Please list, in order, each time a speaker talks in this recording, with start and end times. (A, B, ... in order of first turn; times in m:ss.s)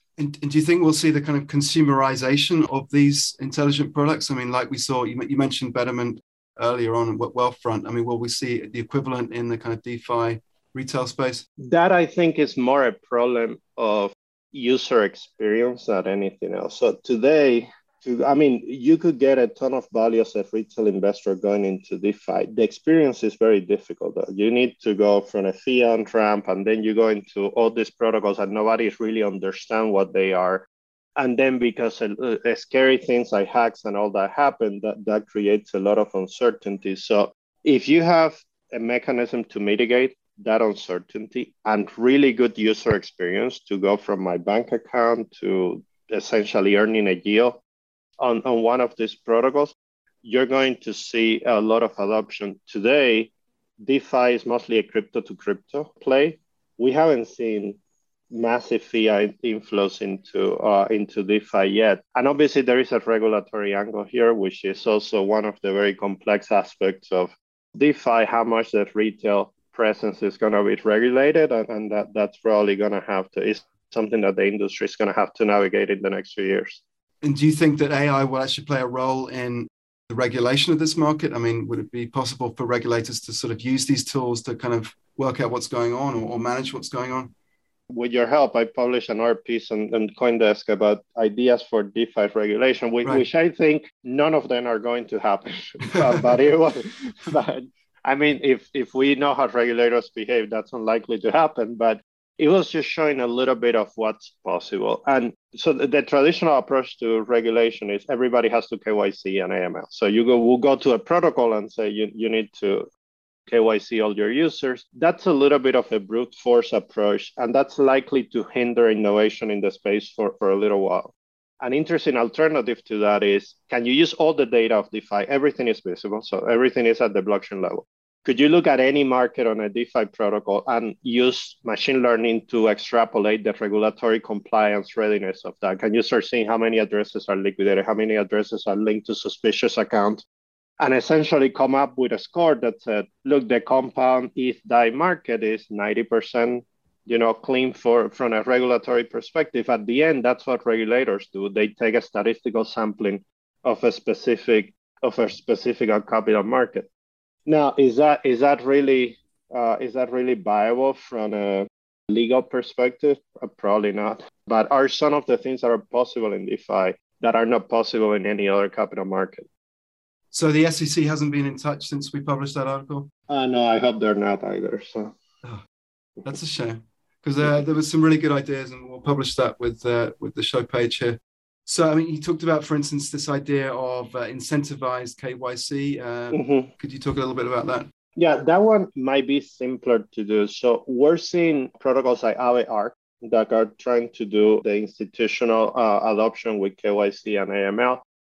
0:00.2-0:11.4 A
0:11.6-0:30.6 B
0:31.2-0:47.6 B
0:48.2-0:57.8 B
0:58.3-1:16.8 B
1:17.2-1:27.3 A
1:27.9-1:52.9 B
1:53.5-2:20.2 B
2:20.8-2:36.9 B
2:37.4-2:49.5 B
2:50.3-2:53.1 A
2:53.3-2:55.1 B
2:56.2-3:07.9 A
3:06.3-3:06.7 B
3:08.2-3:18.0 B